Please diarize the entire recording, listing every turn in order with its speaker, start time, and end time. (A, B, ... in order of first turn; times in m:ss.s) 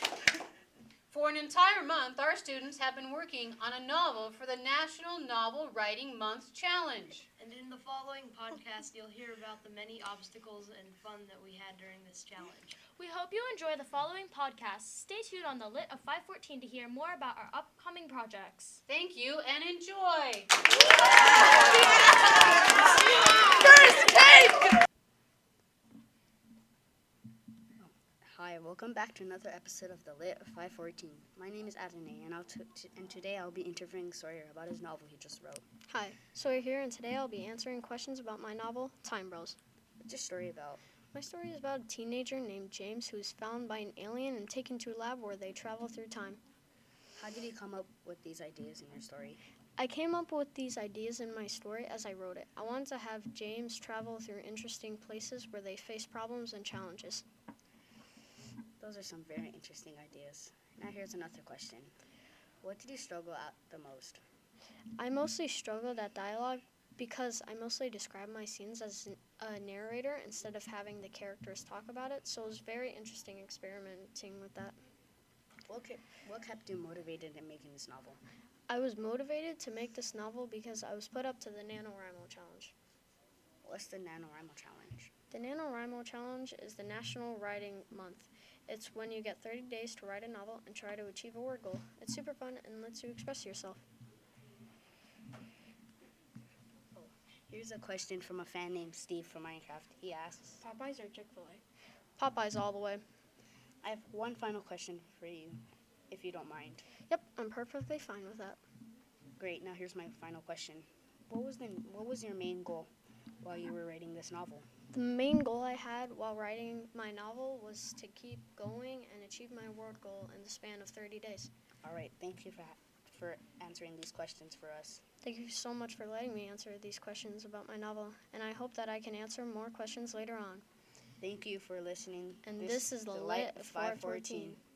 0:01.1-0:07.3 A
0:07.4-0:12.8 B
0:12.9-0:18.8 C
0:18.9-0:20.5 A
0:27.8-0:35.6 D
0:35.9-0:39.6 E
0:40.0-0:40.8 D
0:41.1-0:46.4 E
0:47.2-0:49.4 D
0:49.8-0:57.2 E
0:58.8-1:01.9 D
1:02.6-1:04.2 D
1:05.0-1:14.8 E
1:15.7-1:18.2 D
1:18.7-1:22.7 E
1:23.6-1:25.1 D
1:25.3-1:33.8 E
1:37.0-1:40.6 D
1:40.6-1:41.6 E
1:42.2-1:43.0 E
1:43.8-1:46.8 D
1:47.1-1:48.6 E
1:49.4-1:52.9 D
1:53.4-1:54.7 D
1:54.9-2:01.5 E
2:01.8-2:05.0 D
2:05.2-2:10.6 E
2:11.2-2:14.6 D
2:12.4-2:14.6 E